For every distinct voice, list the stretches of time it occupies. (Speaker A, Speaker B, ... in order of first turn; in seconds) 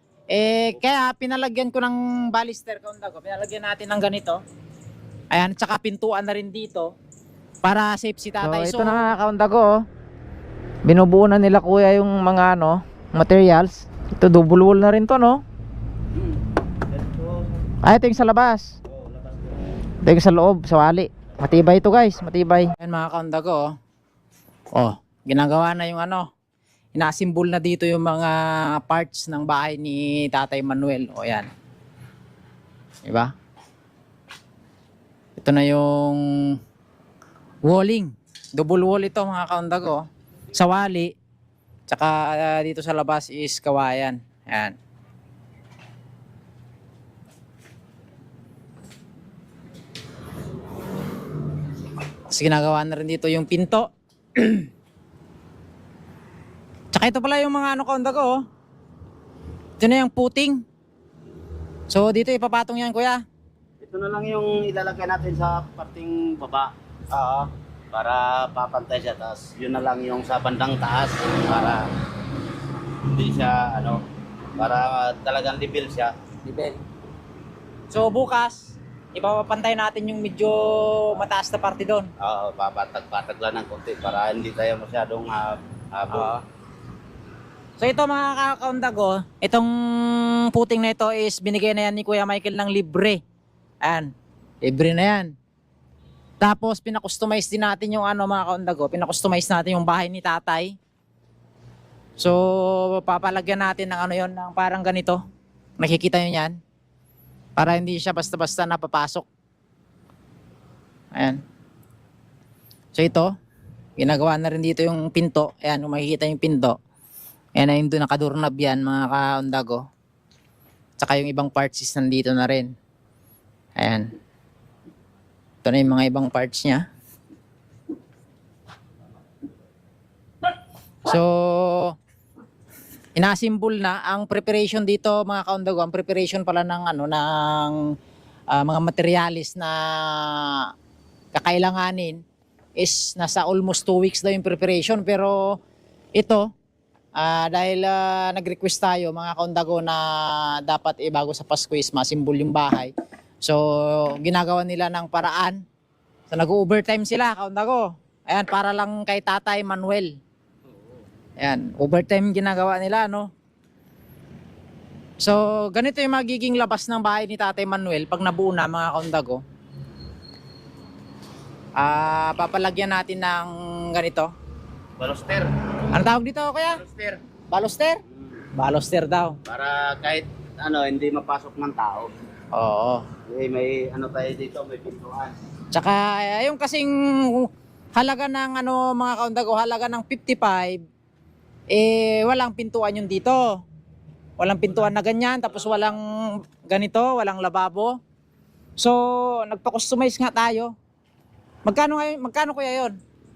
Speaker A: 0.3-4.4, 5.3-6.9, 7.6-9.2, 22.7-23.7, 24.7-26.3, 26.9-31.5, 33.0-33.3, 35.4-36.6, 37.6-41.1, 41.9-44.8, 52.3-54.7, 56.9-58.4, 59.8-60.6, 61.9-63.2, 77.9-82.1, 87.8-93.2, 93.8-94.1, 94.6-95.3, 96.4-100.7, 102.2-105.2, 105.8-106.6, 107.6-109.2, 111.1-111.4, 112.9-113.3, 114.0-116.8, 117.5-119.8, 121.0-122.7, 123.8-124.1, 125.6-126.8, 131.0-132.0, 133.2-137.9, 138.5-140.7, 141.3-142.2, 142.8-145.6, 146.2-146.5, 147.2-152.9, 153.4-155.6, 156.3-160.2, 161.4-163.3, 165.2-169.4, 171.8-174.3, 175.9-176.8, 177.5-178.0, 178.5-179.4, 182.5-183.1, 185.7-190.8, 191.7-193.6, 194.4-198.0, 198.8-200.7, 201.7-202.9
Speaker B: 8.4-9.8, 10.8-15.4, 17.8-18.7, 20.0-22.7
Speaker C: 16.9-17.6, 18.9-19.6, 63.8-71.9, 73.0-74.0, 74.6-76.8, 82.2-86.4, 175.0-175.8, 176.7-177.2, 178.1-178.4, 179.4-182.1, 183.3-185.3